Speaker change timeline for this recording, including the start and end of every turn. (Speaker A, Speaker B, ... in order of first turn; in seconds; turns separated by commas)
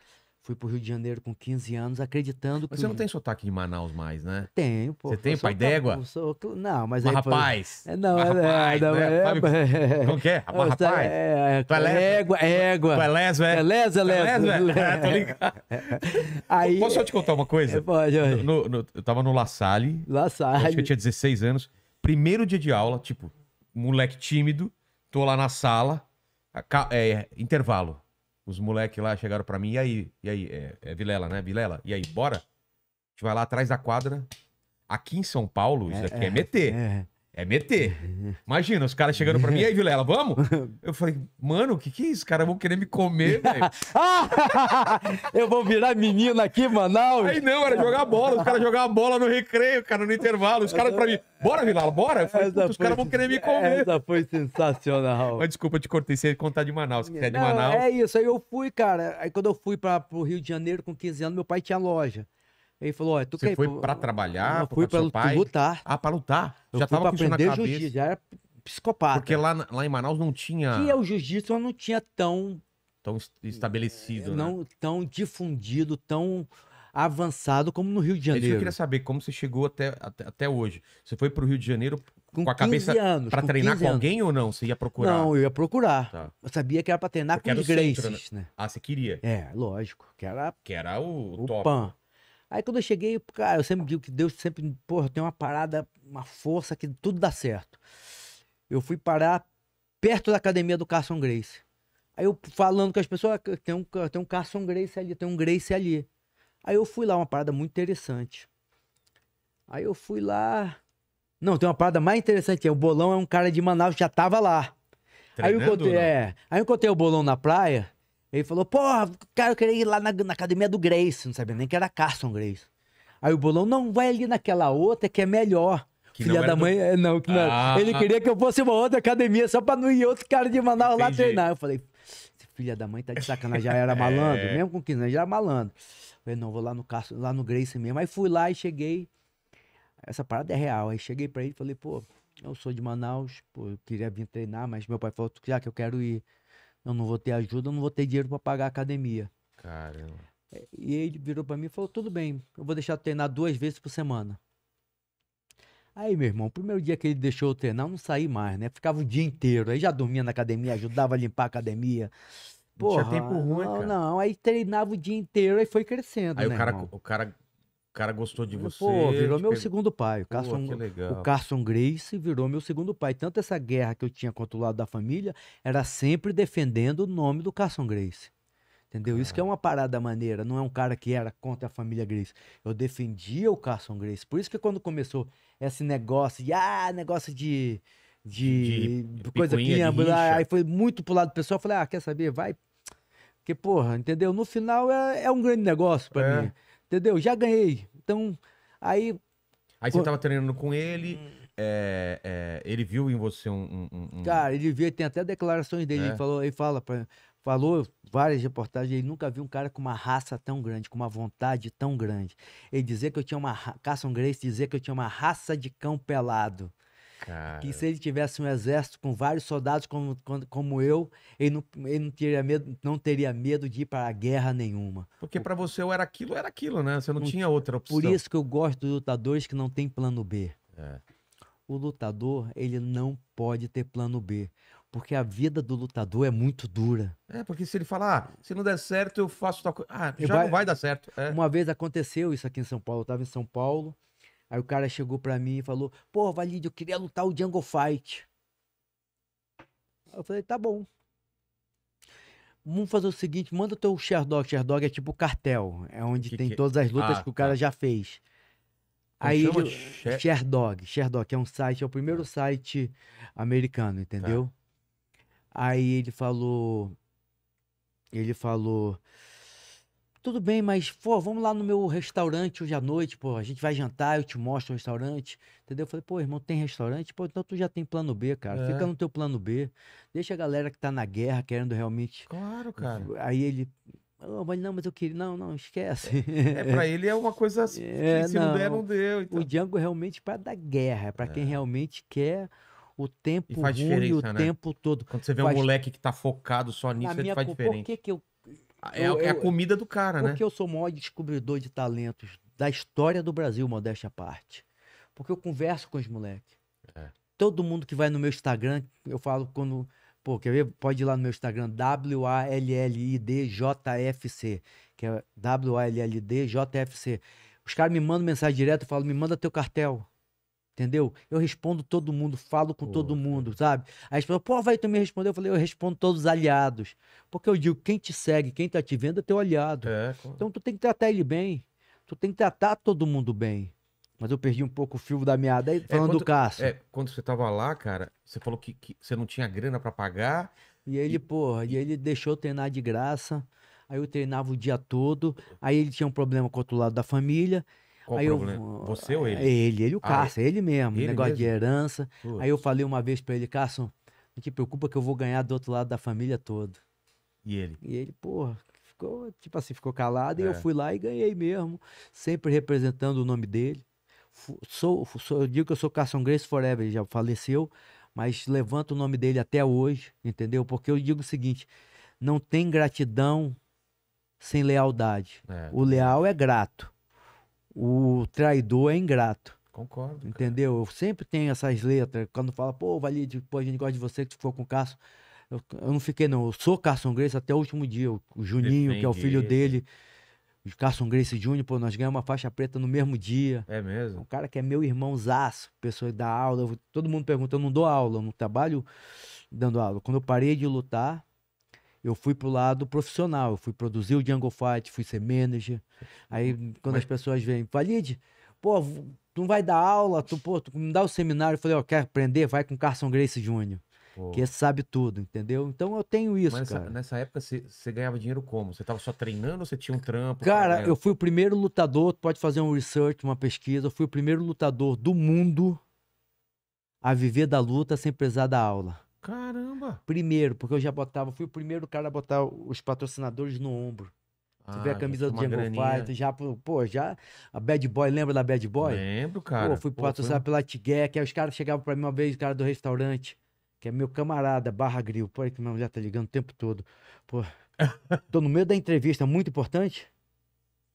Speaker A: 0.4-3.0, Speaker B: 2.7-4.5, Speaker A: 4.5-18.5, Speaker B: 5.1-6.0, Speaker B: 7.0-11.2, Speaker B: 11.7-32.4, Speaker A: 20.1-20.9, Speaker B: 33.2-34.3, Speaker B: 34.9-36.8, Speaker A: 35.9-37.1, Speaker B: 37.3-43.8, Speaker A: 37.8-38.4, Speaker A: 39.2-39.7, Speaker A: 40.4-40.8, Speaker A: 43.2-48.6, Speaker B: 44.3-44.7, Speaker B: 47.2-54.0, Speaker A: 50.7-51.2, Speaker A: 52.2-55.5, Speaker B: 55.3-57.9, Speaker A: 57.1-62.3, Speaker A: 62.8-65.8, Speaker B: 63.4-67.9, Speaker A: 66.7-69.4, Speaker B: 69.1-71.0, Speaker A: 70.7-72.6, Speaker B: 73.0-74.5, Speaker A: 74.0-78.8, Speaker B: 78.3-85.3, Speaker A: 82.3-84.1, Speaker A: 85.0-88.5, Speaker B: 87.3-89.2, Speaker A: 89.2-90.6, Speaker B: 90.7-91.8, Speaker A: 91.4-92.0, Speaker A: 92.5-97.8, Speaker A: 98.7-99.5, Speaker A: 100.0-101.6, Speaker A: 102.2-106.1, Speaker A: 106.6-108.5, Speaker A: 109.7-110.8, Speaker A: 111.4-114.8, Speaker B: 115.4-116.1, Speaker A: 115.4-122.7, Speaker A: 123.2-139.1, Speaker B: 126.2-126.7, Speaker B: 127.3-128.1, Speaker B: 130.8-131.4, Speaker B: 133.2-134.6, Speaker A: 140.1-146.2, Speaker A: 146.8-149.3, Speaker B: 149.6-150.2, Speaker A: 150.6-154.4, Speaker A: 155.9-162.1, Speaker A: 162.8-166.9, Speaker B: 162.8-164.0, Speaker B: 166.4-167.3, Speaker B: 167.9-169.7, Speaker A: 168.5-178.3, Speaker B: 170.3-171.3, Speaker A: 178.9-192.6, Speaker B: 179.1-179.4, Speaker B: 188.4-190.5, Speaker A: 193.4-199.2, Speaker B: 196.1-196.5, Speaker B: 199.8-204.4, Speaker A: 204.2-216.7, Speaker B: 205.9-206.2, Speaker B: 217.2-217.8, Speaker A: 217.6-225.5, Speaker B: 225.2-228.2, Speaker A: 227.2-230.6, Speaker A: 231.7-237.2, Speaker B: 237.3-241.4, Speaker A: 240.2-240.6, Speaker A: 241.3-244.0, Speaker A: 244.5-248.3, Speaker A: 250.1-250.9, Speaker A: 252.7-258.2, Speaker B: 256.2-257.6, Speaker A: 259.2-264.5, Speaker B: 259.2-260.2, Speaker A: 265.5-267.0, Speaker A: 268.1-269.0, Speaker A: 270.2-286.9, Speaker B: 278.5-278.9, Speaker B: 282.3-283.1, Speaker B: 286.5-289.5, Speaker A: 287.7-295.7, Speaker B: 291.2-291.6, Speaker B: 293.5-294.5, Speaker B: 295.1-297.9, Speaker A: 297.0-298.3, Speaker B: 298.8-300.4, Speaker A: 298.9-299.5, Speaker A: 300.2-304.6, Speaker A: 305.1-306.5, Speaker A: 307.4-320.1, Speaker A: 320.8-336.7, Speaker B: 322.8-323.5, Speaker B: 329.8-330.4, Speaker B: 335.9-340.5, Speaker A: 340.9-356.8, Speaker B: 348.1-350.3, Speaker B: 350.9-351.5, Speaker B: 352.2-352.5, Speaker B: 357.4-357.8, Speaker A: 357.8-373.6, Speaker B: 360.4-360.6, Speaker A: 374.4-376.9, Speaker B: 375.5-376.1, Speaker A: 377.7-379.6, Speaker B: 379.7-380.6, Speaker A: 380.2-385.0, Speaker A: 385.5-389.9, Speaker B: 388.6-389.8, Speaker A: 390.6-398.9, Speaker B: 393.7-394.2, Speaker A: 399.5-401.2, Speaker A: 402.0-413.8, Speaker B: 406.3-407.1, Speaker B: 414.2-414.5, Speaker A: 414.3-416.9, Speaker B: 416.5-421.0, Speaker A: 420.4-425.8, Speaker A: 427.0-429.0, Speaker B: 429.2-430.0, Speaker A: 430.1-434.1, Speaker B: 434.6-436.1, Speaker A: 434.7-439.0, Speaker B: 438.8-440.4, Speaker A: 439.6-447.5, Speaker B: 447.8-448.2, Speaker A: 448.3-450.1